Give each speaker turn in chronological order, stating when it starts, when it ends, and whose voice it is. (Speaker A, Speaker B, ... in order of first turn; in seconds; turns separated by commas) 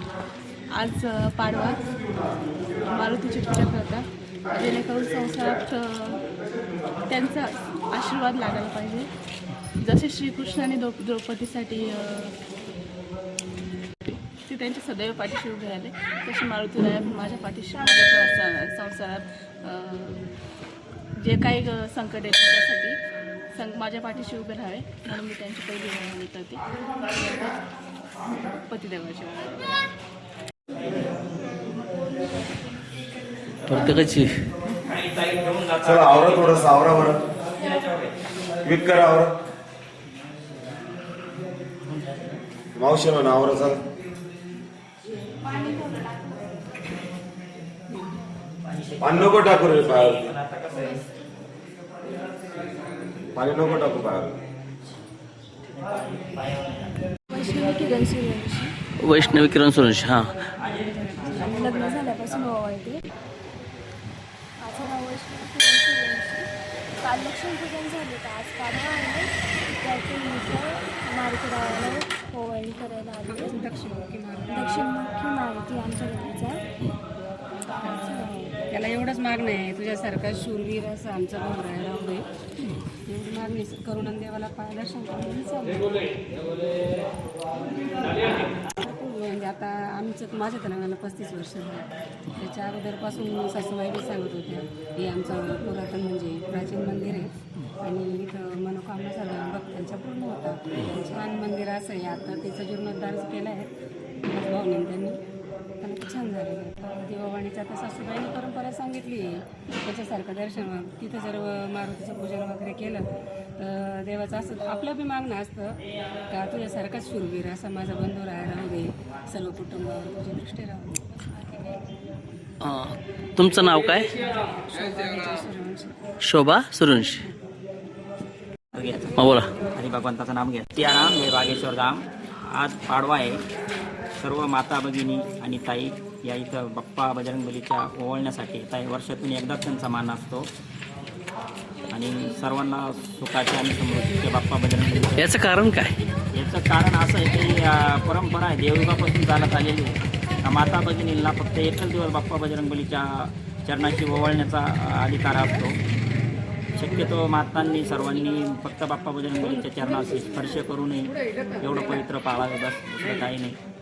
Speaker A: 0.7-1.8, Speaker A: 2.8-6.2, Speaker A: 7.1-9.1, Speaker A: 9.8-12.3, Speaker A: 14.1-20.2, Speaker B: 18.0-18.3, Speaker A: 21.2-22.9, Speaker A: 23.5-26.6, Speaker A: 27.1-27.5, Speaker A: 28.3-29.7, Speaker C: 33.7-34.4, Speaker D: 35.8-37.2, Speaker D: 38.6-39.4, Speaker D: 42.7-43.8, Speaker D: 49.0-50.4, Speaker D: 53.3-54.3, Speaker B: 57.3-58.7, Speaker C: 59.0-60.3, Speaker E: 61.1-61.5, Speaker B: 61.2-63.0, Speaker B: 64.6-66.5, Speaker B: 67.0-73.6, Speaker E: 73.3-74.8, Speaker B: 74.5-76.6, Speaker E: 77.8-82.2, Speaker E: 83.1-86.0, Speaker E: 88.3-103.7, Speaker E: 104.2-105.2, Speaker E: 105.8-115.8, Speaker E: 116.3-121.8, Speaker C: 122.6-124.1, Speaker E: 124.5-125.9, Speaker C: 126.2-127.2, Speaker F: 128.7-133.4, Speaker C: 129.2-129.5, Speaker F: 134.2-140.5, Speaker F: 141.9-145.3, Speaker C: 145.2-145.9, Speaker F: 146.3-155.8, Speaker F: 156.8-163.6